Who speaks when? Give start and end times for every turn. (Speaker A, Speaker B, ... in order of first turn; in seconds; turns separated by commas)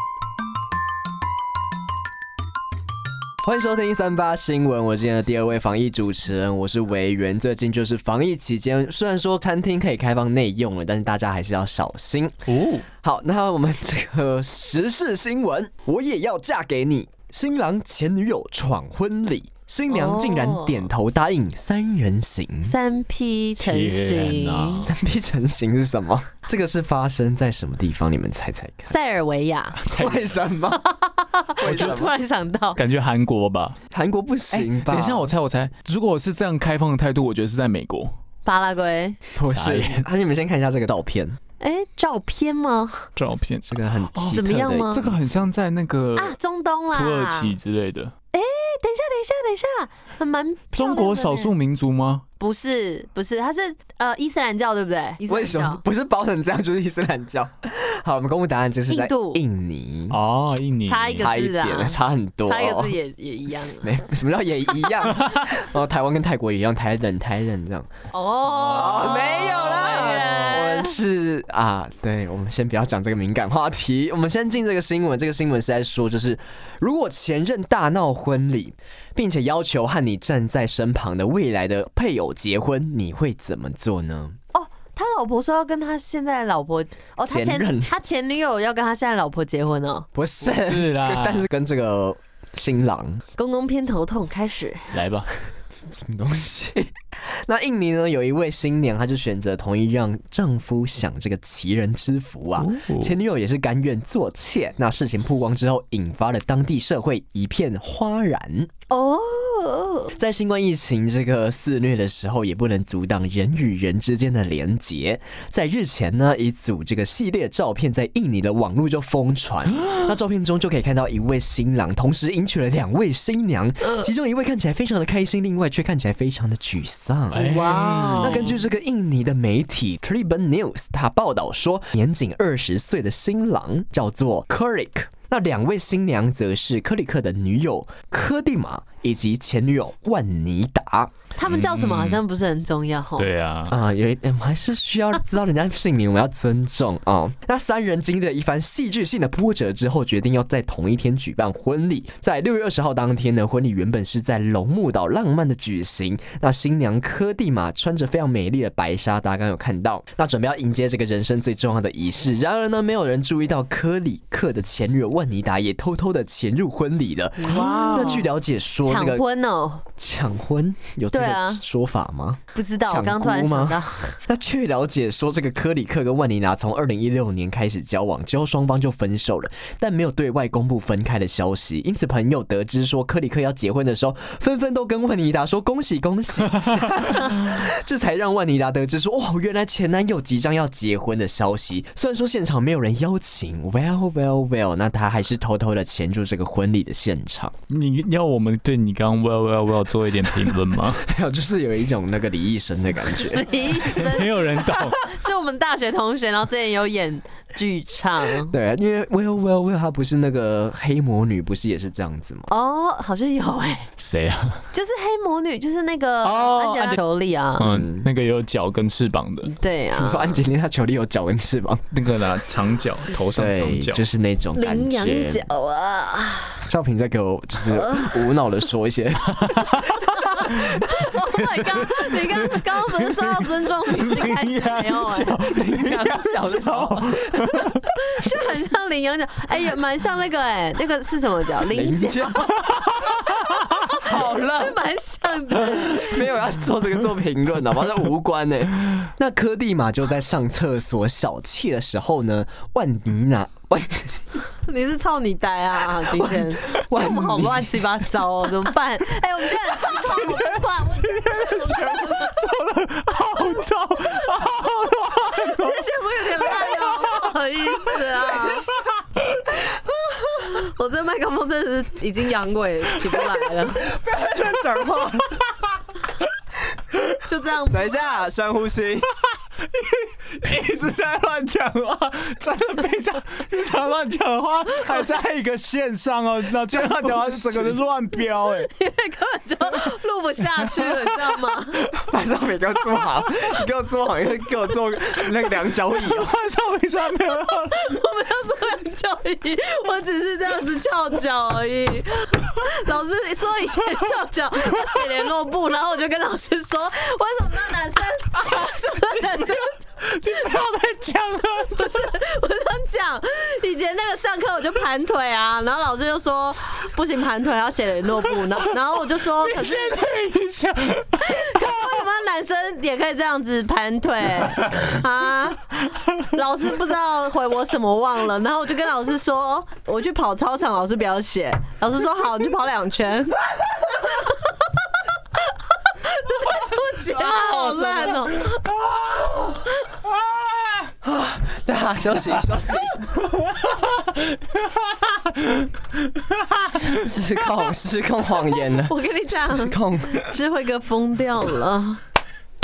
Speaker A: 3.4-12.5, Speaker B: 12.5-12.9, Speaker A: 13.0-22.7, Speaker C: 19.9-20.9, Speaker C: 22.6-24.9, Speaker B: 23.6-24.9, Speaker A: 24.8-28.9, Speaker C: 28.9-29.8, Speaker B: 29.8-30.4, Speaker A: 29.9-30.8, Speaker C: 30.7-32.8, Speaker A: 31.6-32.1, Speaker B: 31.6-32.0, Speaker B: 32.8-33.8, Speaker A: 33.9-35.3, Speaker B: 34.5-38.1, Speaker C: 38.5-39.2, Speaker A: 39.4-41.4, Speaker B: 39.4-40.1, Speaker C: 41.6-43.1, Speaker B: 43.2-46.4, Speaker A: 43.7-45.2, Speaker C: 44.3-45.1, Speaker C: 46.2-47.6, Speaker B: 46.9-48.1, Speaker C: 48.3-51.5, Speaker B: 50.8-52.2, Speaker C: 52.4-55.8, Speaker A: 55.3-60.2, Speaker C: 58.9-59.4, Speaker B: 60.1-61.3, Speaker C: 60.9-64.0, Speaker A: 61.2-63.0, Speaker A: 63.8-67.9, Speaker B: 65.2-65.5, Speaker C: 68.1-71.0, Speaker A: 68.5-84.4, Speaker B: 69.4-70.4, Speaker C: 84.5-90.1, Speaker A: 87.3-87.9, Speaker A: 90.2-93.2, Speaker B: 90.4-91.5, Speaker C: 93.4-95.0, Speaker B: 94.9-95.3, Speaker A: 95.9-108.7, Speaker B: 102.6-103.2, Speaker C: 108.9-110.1, Speaker A: 110.1-141.1, Speaker B: 127.3-128.6, Speaker C: 127.3-128.6, Speaker C: 141.4-143.3, Speaker B: 141.5-142.2, Speaker B: 143.2-143.8, Speaker A: 143.7-169.2, Speaker C: 167.4-168.3, Speaker C: 168.8-169.8, Speaker A: 170.0-197.5, Speaker C: 171.1-171.6, Speaker C: 172.5-174.2, Speaker B: 197.7-201.1, Speaker A: 201.0-204.1, Speaker C: 203.2-208.5, Speaker B: 203.9-205.0, Speaker A: 208.5-212.5, Speaker C: 212.5-213.9, Speaker B: 214.0-214.6, Speaker C: 214.7-217.7, Speaker B: 216.2-217.0, Speaker B: 217.6-219.5, Speaker A: 217.6-218.1, Speaker C: 219.5-220.4, Speaker A: 220.0-221.8, Speaker B: 221.9-224.0, Speaker A: 223.3-225.4, Speaker C: 224.6-226.7, Speaker A: 226.7-229.7, Speaker C: 227.7-228.2, Speaker B: 229.4-230.0, Speaker C: 229.9-235.4, Speaker B: 231.8-237.9, Speaker A: 235.3-237.4, Speaker C: 237.5-246.3, Speaker A: 241.7-242.7, Speaker B: 242.7-243.9, Speaker A: 243.9-244.8, Speaker A: 245.6-254.2, Speaker C: 254.5-262.4, Speaker A: 255.9-257.9, Speaker B: 260.1-267.3, Speaker C: 265.2-268.8, Speaker C: 270.3-273.9, Speaker A: 273.8-275.4, Speaker B: 274.6-275.4, Speaker C: 277.2-278.1, Speaker A: 277.7-279.1, Speaker B: 279.6-288.7, Speaker A: 286.7-287.8, Speaker C: 288.7-291.8, Speaker B: 290.6-291.9, Speaker A: 291.9-296.3, Speaker B: 295.9-298.0, Speaker C: 297.5-309.8, Speaker B: 310.0-312.1, Speaker C: 311.7-320.1, Speaker B: 319.4-321.9, Speaker C: 321.1-333.4, Speaker C: 334.1-334.5, Speaker C: 335.9-338.6, Speaker A: 337.3-338.2, Speaker A: 341.0-343.2, Speaker B: 344.9-345.6, Speaker B: 346.3-346.6, Speaker A: 346.8-350.3, Speaker C: 348.8-352.0